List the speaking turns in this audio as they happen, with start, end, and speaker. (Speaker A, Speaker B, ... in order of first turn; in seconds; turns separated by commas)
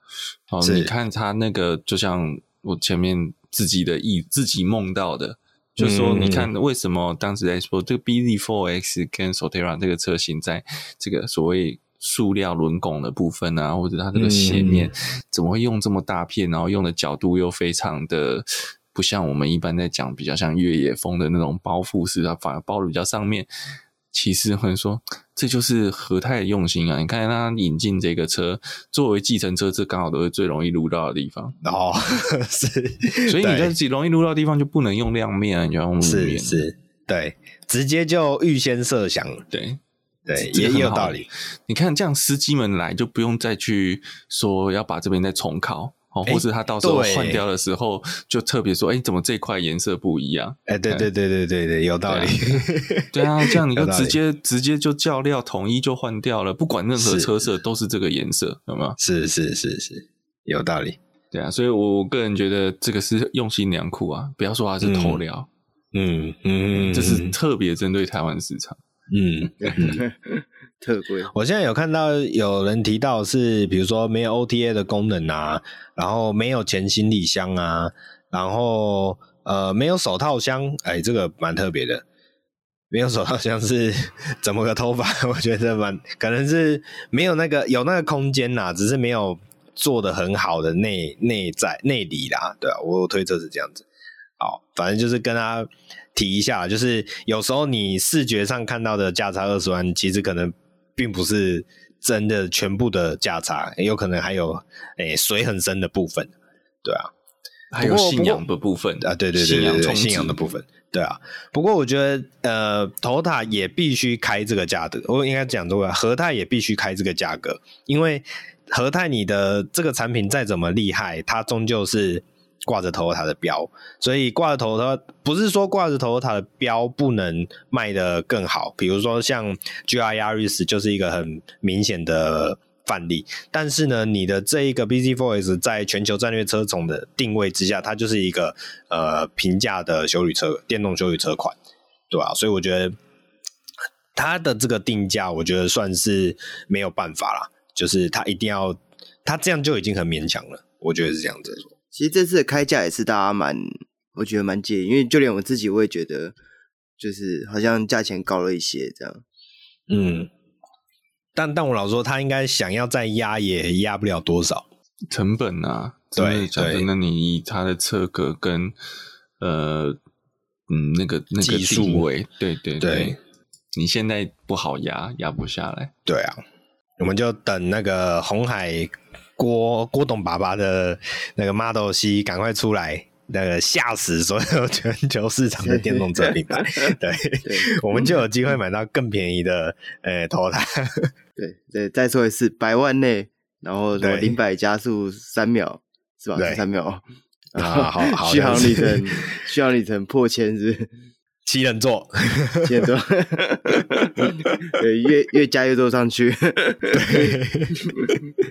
Speaker A: 0.5-23.5, Speaker B: 0.6-0.9, Speaker B: 5.8-6.5, Speaker B: 14.2-14.9, Speaker A: 24.1-31.5, Speaker B: 31.6-33.7, Speaker A: 33.2-36.6, Speaker B: 36.0-39.4, Speaker A: 39.5-39.8, Speaker B: 40.3-41.3, Speaker A: 40.3-51.1, Speaker B: 46.2-47.4, Speaker B: 50.7-54.1, Speaker A: 52.0-59.0, Speaker B: 57.0-57.3, Speaker B: 59.0-61.0, Speaker A: 61.3-65.5, Speaker B: 64.8-65.2, Speaker B: 65.9-67.3, Speaker A: 66.7-68.8, Speaker B: 69.1-70.0, Speaker C: 69.6-71.3, Speaker B: 71.3-82.0, Speaker B: 82.9-93.8, Speaker B: 94.4-106.3, Speaker B: 106.8-107.1, Speaker A: 107.7-110.4, Speaker B: 107.8-108.4, Speaker B: 109.0-141.6, Speaker B: 142.1-142.9, Speaker B: 144.1-151.7, Speaker C: 151.9-156.3, Speaker C: 157.0-159.2, Speaker B: 159.9-160.3, Speaker B: 161.3-164.7, Speaker A: 165.1-168.7, Speaker B: 166.2-166.9, Speaker A: 169.4-170.0, Speaker A: 170.7-173.2, Speaker B: 171.4-172.1, Speaker B: 172.8-173.2, Speaker A: 173.7-175.9, Speaker B: 176.1-176.4, Speaker B: 177.0-191.1, Speaker C: 185.6-188.2, Speaker C: 191.4-200.9, Speaker B: 194.0-194.3, Speaker B: 196.3-196.6, Speaker B: 197.6-199.2, Speaker B: 201.4-202.9, Speaker C: 202.6-207.3, Speaker B: 206.9-208.1, Speaker C: 207.8-208.1